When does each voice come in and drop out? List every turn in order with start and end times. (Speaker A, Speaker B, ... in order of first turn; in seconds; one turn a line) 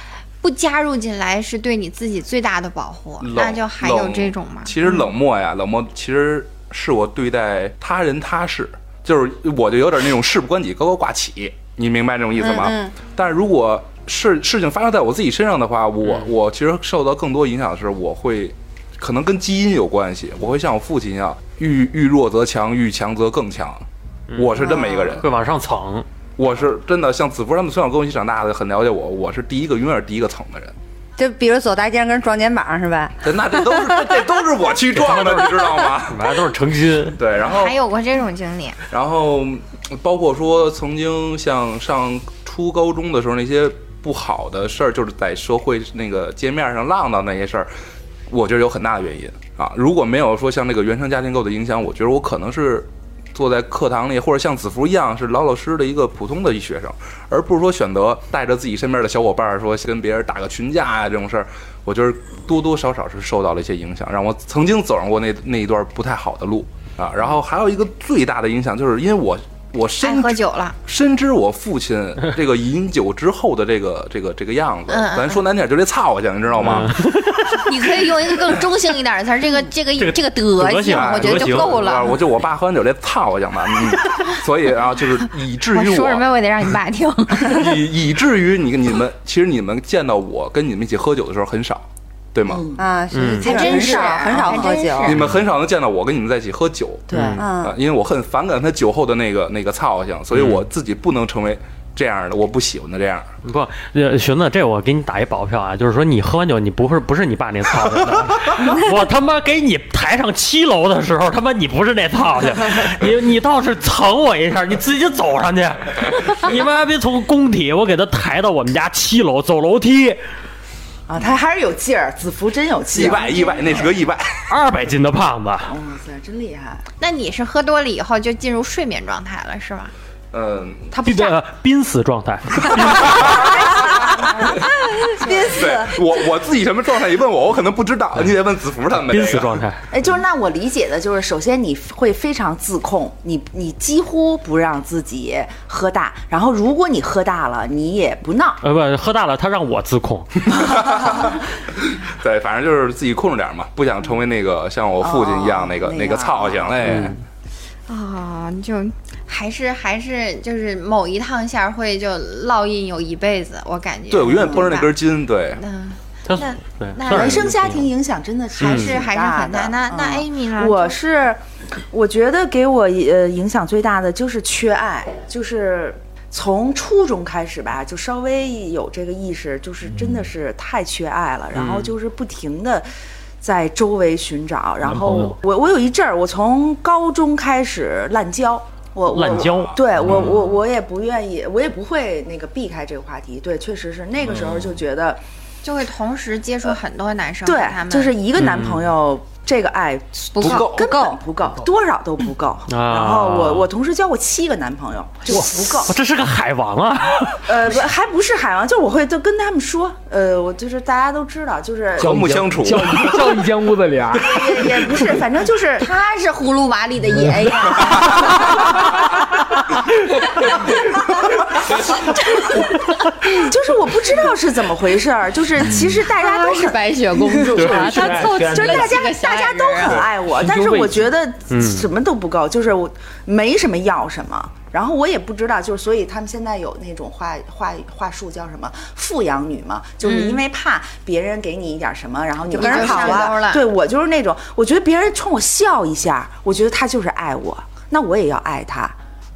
Speaker A: 0.4-4.7
Speaker B: 3.2-25.3
Speaker C: 12.4-12.9
Speaker D: 24.3-26.1
Speaker B: 26.4-30.7
Speaker C: 31.2-34.0
Speaker B: 33.2-36.3
Speaker D: 35.0-37.2
Speaker B: 37.1-37.8
Speaker A: 37.4-38.8
Speaker B: 38.9-47.7
Speaker B: 48.3-77.2
Speaker A: 70.0-70.8
Speaker A: 74.9-75.5
Speaker D: 76.6-77.6
Speaker A: 77.5-82.2
Speaker D: 80.0-81.9
Speaker B: 80.9-86.3
Speaker A: 85.7-87.8
Speaker B: 87.4-92.6
Speaker E: 92.5-92.8
Speaker C: 92.8-95.2
Speaker D: 93.1-93.5
Speaker E: 93.4-94.7
Speaker A: 93.4-95.3
Speaker B: 95.0-103.3
Speaker E: 97.1-97.5
Speaker D: 97.1-97.5
Speaker C: 97.4-97.8
Speaker D: 100.3-100.6
Speaker D: 103.4-120.2
Speaker E: 121.1-124.0
Speaker B: 122.9-124.4
Speaker D: 124.5-125.8
Speaker E: 125.7-126.8
Speaker A: 127.0-129.9
Speaker B: 130.3-130.9
Speaker E: 130.9-131.4
Speaker D: 131.0-133.5
Speaker B: 132.7-134.1
Speaker E: 133.1-134.6
Speaker E: 135.2-135.6
Speaker B: 135.4-139.6
Speaker D: 139.1-139.8
Speaker E: 139.9-148.6
Speaker D: 148.6-150.4
Speaker B: 150.5-157.2
Speaker E: 155.0-157.2
Speaker D: 156.8-157.2
Speaker A: 157.9-164.9
Speaker B: 164.1-165.6
Speaker E: 164.3-164.7
Speaker A: 165.6-167.5
Speaker D: 166.3-167.9
Speaker E: 167.1-182.9
Speaker D: 168.6-169.0
Speaker A: 168.6-171.0
Speaker D: 181.5-181.9
Speaker E: 183.4-195.2
Speaker F: 184.8-185.4
Speaker D: 189.1-190.3
Speaker A: 195.6-198.1
Speaker E: 197.4-206.0
Speaker D: 198.3-198.9
Speaker A: 200.3-201.1
Speaker B: 200.4-200.8
Speaker D: 202.7-203.7
Speaker D: 205.3-207.7
Speaker E: 207.5-212.2
Speaker B: 212.0-213.3
Speaker F: 212.0-214.7
Speaker E: 214.1-215.9
Speaker A: 215.8-219.3
Speaker A: 220.4-222.9
Speaker E: 223.3-249.0
Speaker F: 225.6-226.0
Speaker A: 226.1-230.0
Speaker F: 227.5-228.9
Speaker D: 227.7-227.9
Speaker F: 230.3-231.1
Speaker D: 231.5-231.9
Speaker A: 240.0-240.4
Speaker A: 242.5-243.6
Speaker C: 242.5-243.4